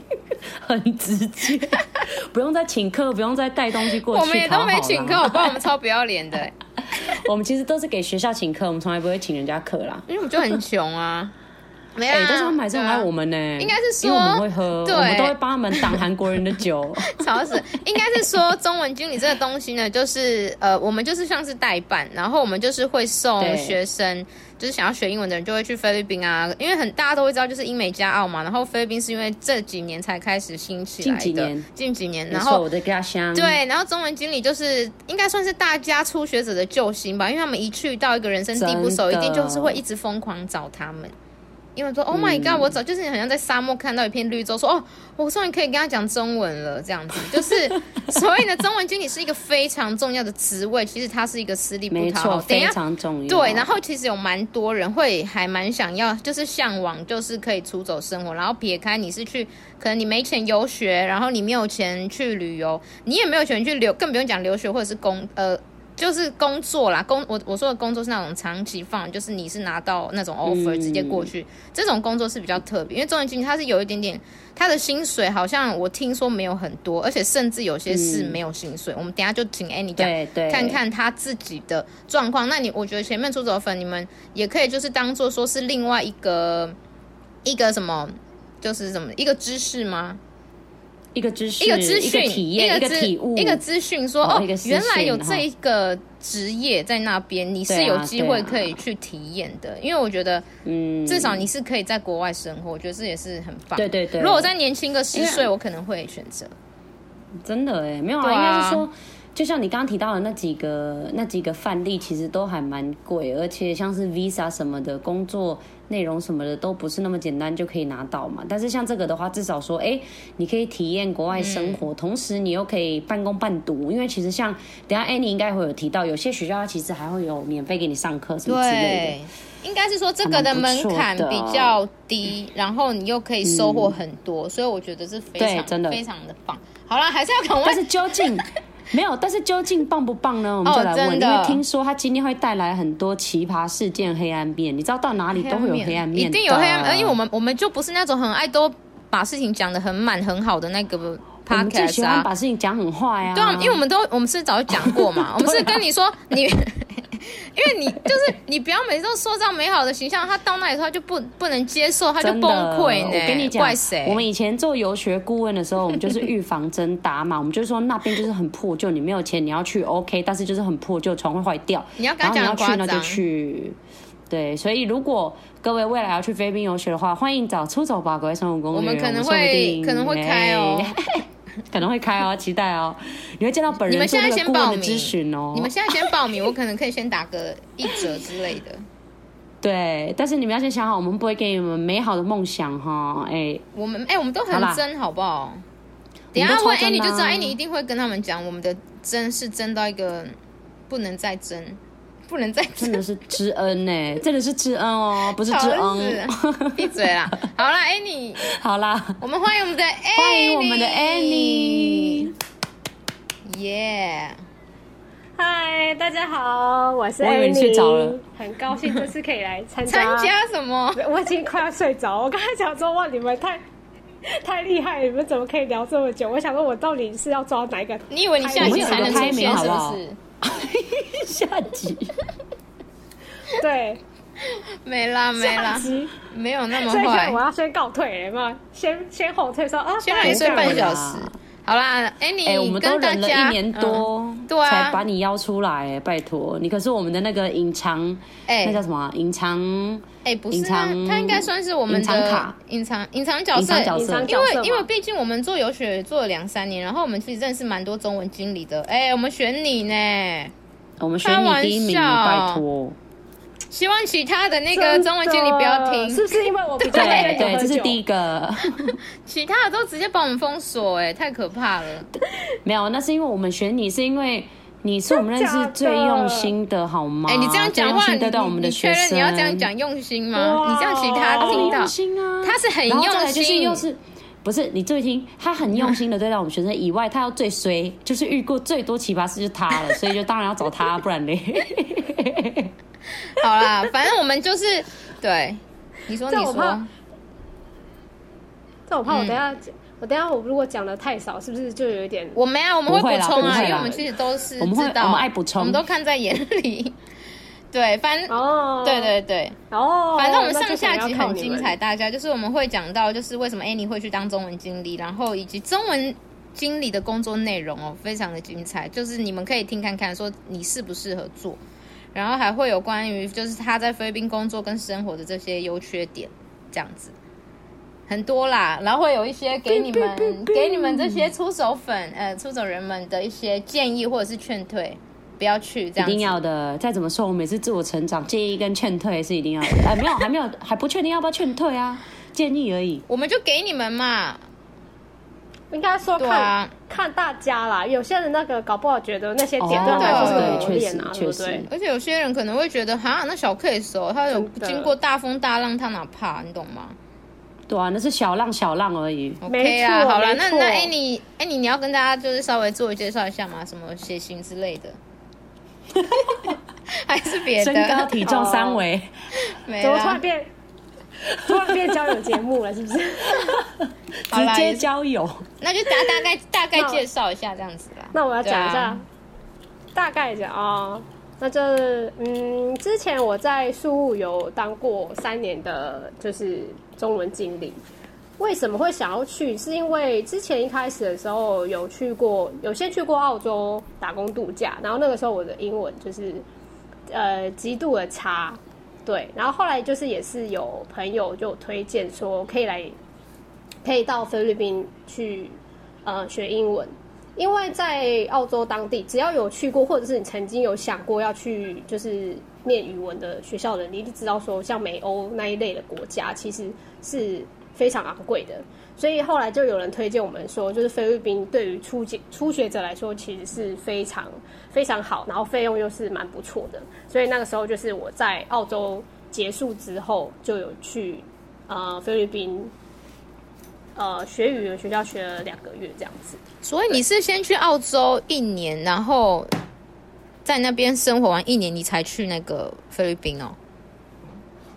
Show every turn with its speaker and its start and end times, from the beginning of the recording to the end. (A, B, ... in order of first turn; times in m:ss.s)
0:00.6-0:05.5 A
0:03.9-0:06.6 B
0:06.9-0:10.1 A
0:10.1-0:11.3 B
0:11.9-0:13.1 B
0:12.1-0:17.3 A
0:13.6-0:16.0 B
0:17.1-0:32.6 B
0:23.4-0:23.8 A
0:31.0-0:31.6 A
0:32.3-0:33.6 A
0:33.3-0:41.1 B
0:38.5-0:39.8 A
0:41.8-1:26.8 B
0:42.1-0:42.7 A
0:51.9-0:53.7 A
1:10.4-1:11.3 A
1:17.9-1:18.4 A
1:20.0-1:20.8 A
1:27.4-1:30.2 B
1:31.1-1:33.6 A
1:31.6-1:40.4 B
1:34.2-1:35.4 A
1:37.7-1:38.8 A
1:40.6-1:41.5 A
1:41.1-1:46.5 B
1:43.7-1:44.5 A
1:45.1-1:45.5 A
1:47.4-2:09.2 A
1:48.2-1:48.8 B
2:01.3-2:01.8 B
2:08.4-2:18.6 B
2:10.2-2:11.8 A
2:13.4-2:13.9 A
2:15.4-2:16.0 A
2:17.6-2:27.2 A
2:20.6-2:21.6 B
2:25.3-2:32.3 B
2:31.5-2:33.8 A
2:33.3-2:44.2 B
2:34.7-2:35.8 A
2:42.2-2:53.8 A
2:52.0-2:53.2 B
2:54.3-3:06.5 A
2:58.7-3:01.0 B
3:03.8-3:08.8 B
3:07.9-3:08.2 A
3:09.6-3:13.6 A
3:13.7-3:15.6 B
3:14.5-3:14.8 A
3:16.3-3:17.6 A
3:16.3-3:20.4 B
3:20.9-3:23.0 B
3:22.8-3:27.0 A
3:25.2-3:28.5 B
3:28.4-3:29.2 A
3:29.2-3:32.3 B
3:30.1-3:32.3 A
3:33.4-3:34.4 B
3:35.4-3:40.4 C
3:37.2-3:38.2 A
3:39.9-3:41.0 B
3:40.9-3:43.6 C
3:44.2-3:49.8 C
3:48.1-3:50.2 B
3:48.6-3:52.1 A
3:53.5-3:54.0 C
3:54.4-3:57.4 B
3:55.4-3:56.1 C
3:56.7-4:00.9 C
4:00.0-4:05.0 B
4:00.2-4:01.3 A
4:02.4-4:12.6 A
4:08.5-4:08.8 B
4:10.2-4:20.5 B
4:13.5-4:14.3 A
4:13.9-4:14.9 C
4:21.0-4:23.0 A
4:21.2-4:22.6 B
4:23.7-4:26.2 B
4:24.7-4:28.0 C
4:26.8-4:27.7 B
4:26.9-4:29.0 A
4:28.7-4:32.1 B
4:32.6-4:39.7 A
4:35.1-4:36.5 C
4:37.3-4:43.8 B
4:40.3-4:41.8 C
4:41.3-4:52.7 A
4:53.3-4:56.9 B
4:56.3-4:56.8 C
4:58.9-5:02.4 C
4:59.1-4:59.4 B
5:02.3-5:07.0 B
5:02.9-5:04.0 A
5:03.4-5:04.0 C
5:04.6-5:05.8 A
5:07.7-5:09.6 B
5:08.3-5:09.2 C
5:09.7-5:11.8 C
5:10.2-5:21.6 B
5:22.1-5:27.1 B
5:28.1-5:36.4 B
5:29.7-5:31.3 A
5:36.0-5:43.0 A
5:43.1-5:44.4 B
5:45.7-5:51.7 C
5:46.2-5:46.7 B
5:49.6-5:51.7 A
5:49.7-5:50.7 B
5:51.7-5:57.0 B
5:54.3-5:54.9 C
5:57.7-5:59.4 A
5:59.4-6:05.0 B
5:59.4-6:00.9 C
6:06.3-6:08.2 B
6:07.6-6:09.1 A
6:08.2-6:08.8 C
6:09.4-6:10.2 B
6:09.8-6:10.5 C
6:11.4-6:13.6 C
6:13.8-6:15.4 A
6:14.3-6:14.9 B
6:15.6-6:19.0 B
6:16.8-6:17.0 C
6:18.1-6:19.0 C
6:19.9-6:27.8 C
6:28.4-6:36.4 C
6:37.1-6:43.0 C
6:43.8-7:12.7 C
7:14.0-7:17.0 C
7:16.6-7:19.5 B
7:20.4-7:23.6 B